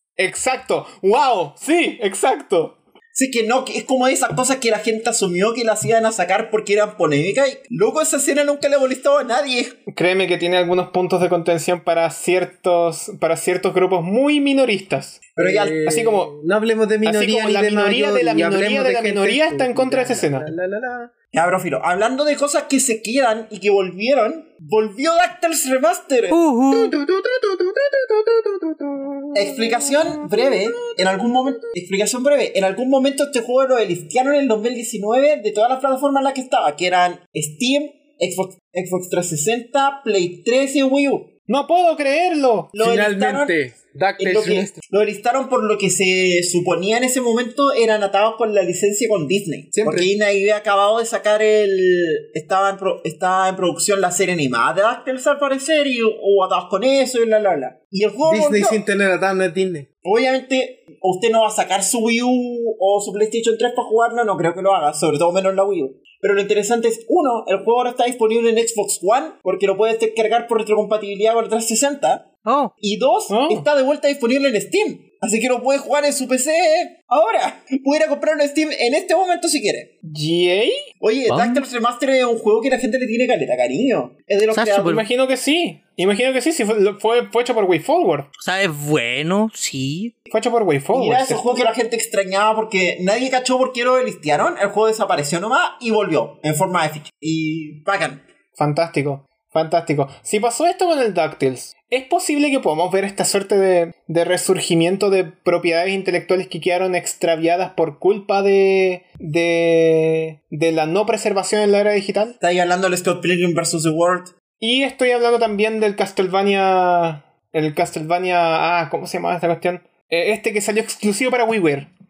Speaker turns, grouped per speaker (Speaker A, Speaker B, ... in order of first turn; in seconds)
Speaker A: 0.2-2.8, 9.9-15.2, 15.8-16.3, 17.0-20.5, 41.5-42.8, 73.3-73.7, 80.0-80.8, 84.8-88.3, 90.3-91.4, 98.6-112.4, 114.6-121.9
Speaker B: 3.1-9.8, 15.4-15.9, 21.3-26.4, 29.3-41.3, 42.7-43.6, 44.2-58.8, 60.0-79.9, 81.0-85.0, 90.9-98.2, 112.4-114.3
Speaker C: 15.4-21.1, 26.7-31.7, 42.8-44.8, 49.7-50.1, 58.3-59.9
Speaker D: 26.3-26.9, 72.5-72.7, 81.3-81.7, 84.5-85.0, 88.4-90.1